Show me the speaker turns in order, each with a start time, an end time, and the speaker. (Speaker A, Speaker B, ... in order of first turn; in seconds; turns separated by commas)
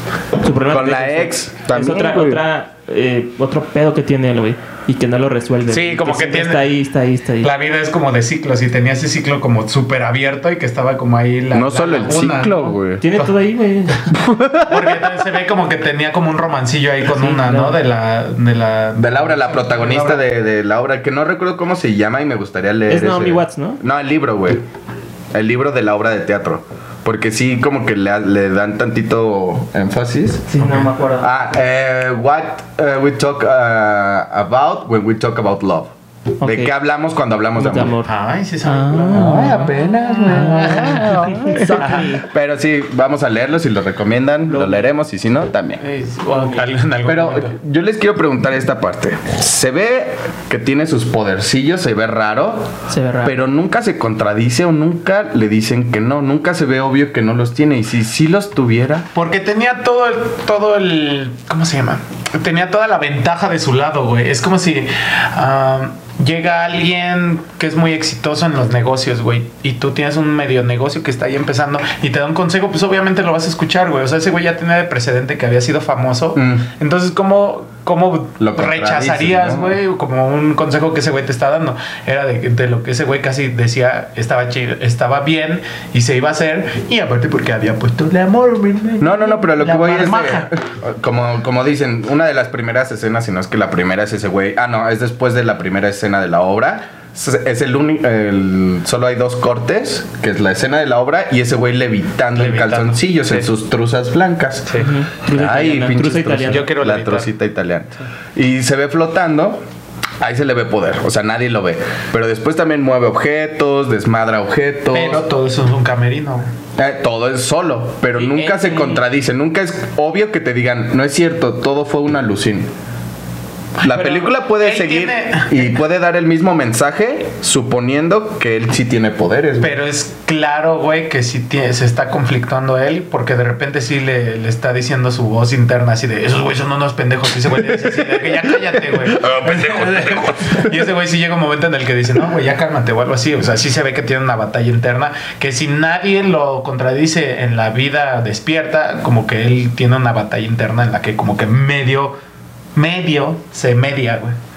Speaker A: 0.4-7.5, Speaker B: 0.7-2.4, Speaker C: 5.7-6.7, Speaker C: 7.4-13.3, Speaker B: 11.5-13.0, Speaker A: 13.0-14.1, Speaker B: 14.1-15.0, Speaker C: 14.6-20.2, Speaker A: 17.1-17.8, Speaker B: 19.0-24.6, Speaker A: 22.9-23.8, Speaker B: 25.3-30.7, Speaker A: 30.5-31.3, Speaker C: 30.6-30.9, Speaker B: 31.2-35.9, Speaker A: 36.4-36.7, Speaker B: 36.4-38.0, Speaker A: 37.6-38.1, Speaker C: 38.0-42.1, Speaker A: 38.6-39.7, Speaker B: 39.1-45.8, Speaker A: 40.3-42.3, Speaker A: 44.5-44.9, Speaker C: 45.8-47.5, Speaker A: 46.3-46.6, Speaker B: 47.0-52.7, Speaker A: 52.9-53.4, Speaker B: 53.2-59.1, Speaker C: 59.1-90.5, Speaker B: 76.4-76.7, Speaker B: 78.4-79.8, Speaker B: 89.0-109.6, Speaker C: 102.3-103.5, Speaker A: 104.8-106.7, Speaker C: 106.5-107.3, Speaker B: 110.2-115.2, Speaker C: 114.9-116.5, Speaker B: 116.8-122.7, Speaker A: 118.1-119.0, Speaker B: 123.8-129.8, Speaker C: 123.8-125.6, Speaker C: 129.6-152.2, Speaker B: 138.5-140.7, Speaker C: 152.8-154.4